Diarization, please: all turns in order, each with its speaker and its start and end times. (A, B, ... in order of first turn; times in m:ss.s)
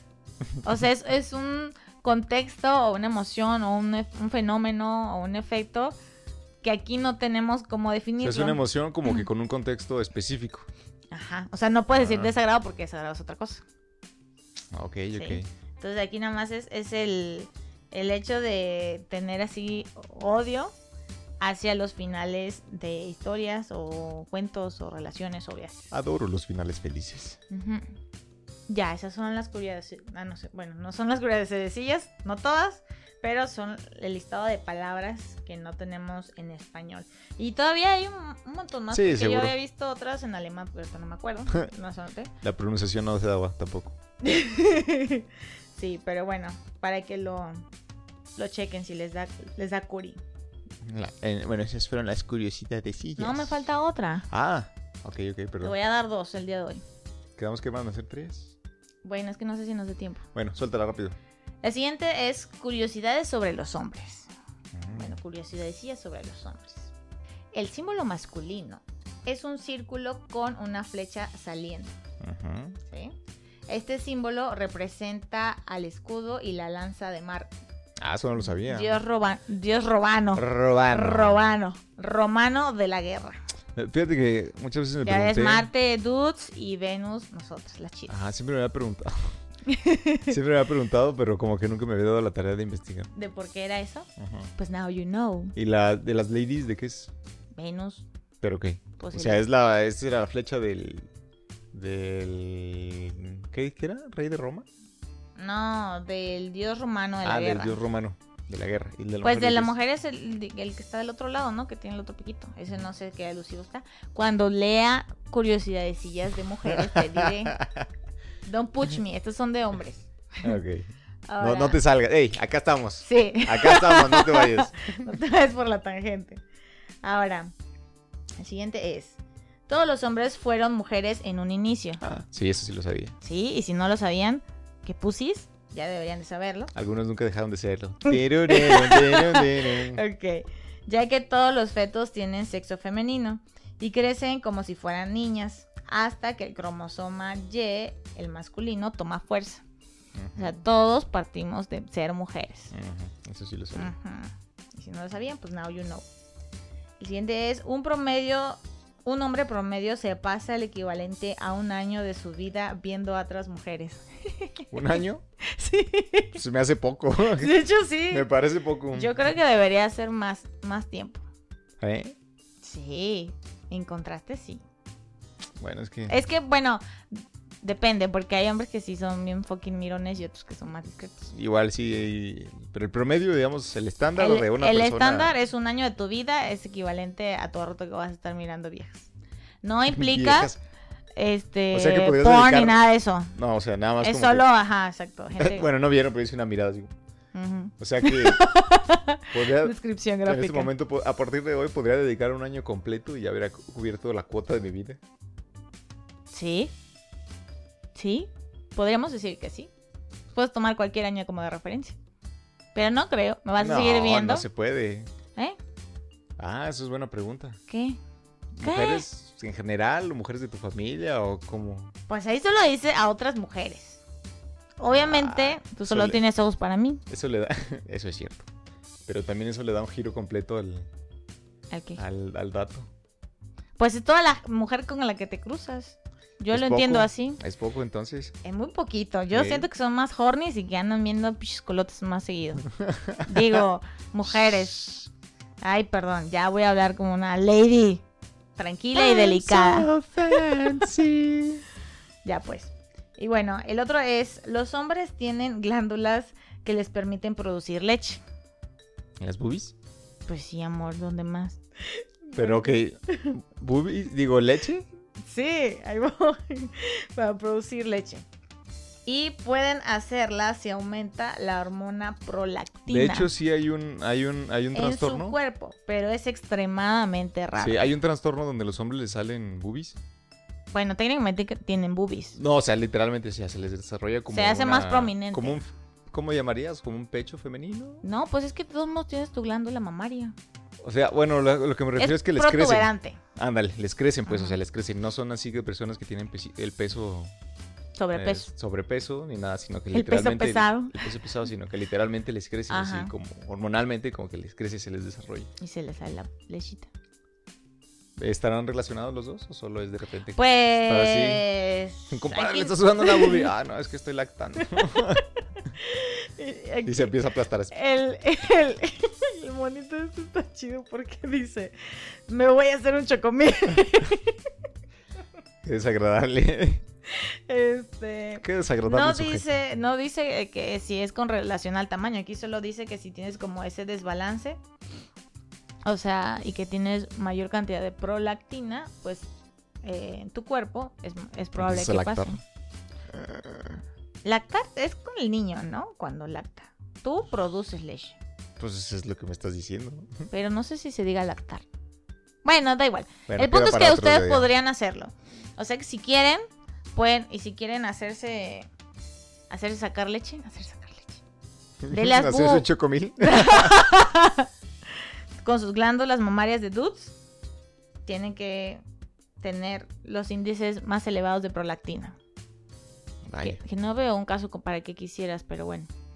0:00.6-0:06.0 A
0:06.6-0:08.6 A
0:08.2-0:10.7 B
0:11.1-0:13.6 A
0:11.9-0:12.3 B
0:14.7-0:15.5 B
0:15.2-0:20.8 A
0:21.4-0:25.9 A
0:25.9-0:27.4 B
0:27.5-0:27.9 A
0:28.7-0:42.3 A
0:38.9-0:39.6 B
0:42.4-0:44.0 B
0:44.2-0:47.6 A
0:48.4-0:50.2 A
0:50.8-0:53.5 B
0:53.2-0:54.3 A
0:54.3-0:55.8 B
0:55.6-0:56.8 A
0:57.4-0:58.6 B
0:59.0-1:00.2 A
1:00.3-1:01.2 B
1:01.6-1:04.3 A
1:04.7-1:05.2 B
1:04.9-1:06.9 A
1:07.5-1:11.9 A
1:12.2-1:12.8 B
1:12.9-1:13.2 A
1:13.7-1:17.5 A
1:18.0-1:19.0 B
1:18.6-1:23.4 A
1:20.4-1:21.4 B
1:23.8-1:25.7 B
1:25.0-1:28.2 A
1:28.1-1:29.3 B
1:29.7-1:30.3 A
1:30.3-1:33.1 B
1:33.1-1:35.6 A
1:34.2-1:34.5 B
1:35.6-1:37.1 B
1:37.6-1:38.1 A
1:38.4-1:41.1 B
1:39.0-1:39.4 A
1:41.7-1:44.7 B
1:45.4-1:47.8 A
1:47.2-1:49.8 B
1:49.2-1:57.6 A
1:56.7-1:57.9 B
1:58.4-2:00.6 A
2:00.4-2:05.0 B
2:01.3-2:01.8 A
2:03.0-2:06.4 A
2:07.0-2:07.5 A
2:08.4-2:12.0 A
2:12.0-2:13.2 B
2:13.2-2:16.7 A
2:16.7-2:20.0 B
2:18.1-2:29.6 A
2:30.2-2:30.5 B
2:30.4-2:32.7 A
2:32.7-2:33.9 B
2:33.8-2:36.1 A
2:37.0-2:46.4 A
2:44.7-2:45.2 B
2:46.4-2:47.6 B
2:47.3-2:48.3 A
2:48.1-2:49.1 B
2:48.9-2:51.2 A
2:51.8-2:52.2 B
2:52.6-2:54.6 A
2:55.6-2:56.2 B
2:56.1-3:01.3 A
3:01.3-3:05.3 B
3:04.2-3:09.1 A
3:09.6-3:10.5 A
3:09.9-3:10.6 B
3:11.2-3:13.4 A
3:11.7-3:12.8 B
3:13.3-3:14.5 B
3:14.0-3:15.7 A
3:15.4-3:16.9 B
3:17.3-3:20.7 A
3:17.8-3:18.4 B
3:19.3-3:25.0 B
3:26.3-3:26.7 A
3:28.0-3:29.7 A
3:30.3-3:32.0 A
3:32.8-3:34.5 A
3:33.6-3:35.1 B
3:36.4-3:37.6 B
3:37.7-3:38.0 A
3:38.6-3:41.9 B
3:38.6-3:39.0 A
3:42.1-3:44.0 A
3:44.8-3:47.0 A
3:44.9-3:46.2 B
3:47.1-3:48.5 B
3:49.1-3:50.9 B
3:51.7-3:52.0 A
3:52.0-3:52.9 B
3:53.8-3:57.4 A
3:56.5-3:58.4 B
3:58.4-4:02.7 A
3:59.3-3:59.7 B
4:03.2-4:05.0 A
4:04.5-4:04.9 B
4:05.6-4:08.0 A
4:08.6-4:10.7 A
4:08.9-4:11.6 B
4:12.2-4:18.2 A
4:19.2-4:19.8 B
4:20.3-4:23.3 A
4:22.4-4:24.9 B
4:25.2-4:28.2 A
4:29.1-4:33.3 A
4:32.9-4:35.4 B
4:34.7-4:37.9 A
4:37.6-4:40.0 B
4:40.7-4:42.4 A
4:42.4-4:48.0 B
4:44.3-4:45.6 A
4:48.0-4:50.4 A
4:50.8-4:57.3 B
4:52.0-4:53.2 A
4:54.3-4:54.6 A
4:58.0-4:58.5 A
4:58.1-5:05.5 B
4:59.9-5:01.1 A
5:02.7-5:03.1 A
5:05.6-5:06.9 A
5:08.2-5:11.4 B
5:10.4-5:13.5 A
5:12.1-5:15.2 B
5:14.6-5:15.2 A
5:15.8-5:17.1 A
5:16.8-5:17.7 B
5:17.7-5:24.4 A
5:25.6-5:26.8 B
5:27.1-5:34.6 A
5:28.4-5:29.4 B
5:35.8-5:39.3 A
5:39.8-5:42.4 A
5:41.6-5:42.4 B
5:43.1-5:43.8 B
5:44.2-5:48.2 A
5:48.6-5:50.3 B
5:50.3-5:51.6 A
5:52.4-5:58.7 A
5:53.3-5:54.5 B
5:59.5-6:01.2 A
6:01.8-6:03.8 B
6:01.9-6:02.7 A
6:03.2-6:04.5 A
6:05.4-6:07.1 A
6:08.1-6:08.8 A
6:09.4-6:12.2 A
6:13.2-6:13.6 B
6:13.4-6:15.9 A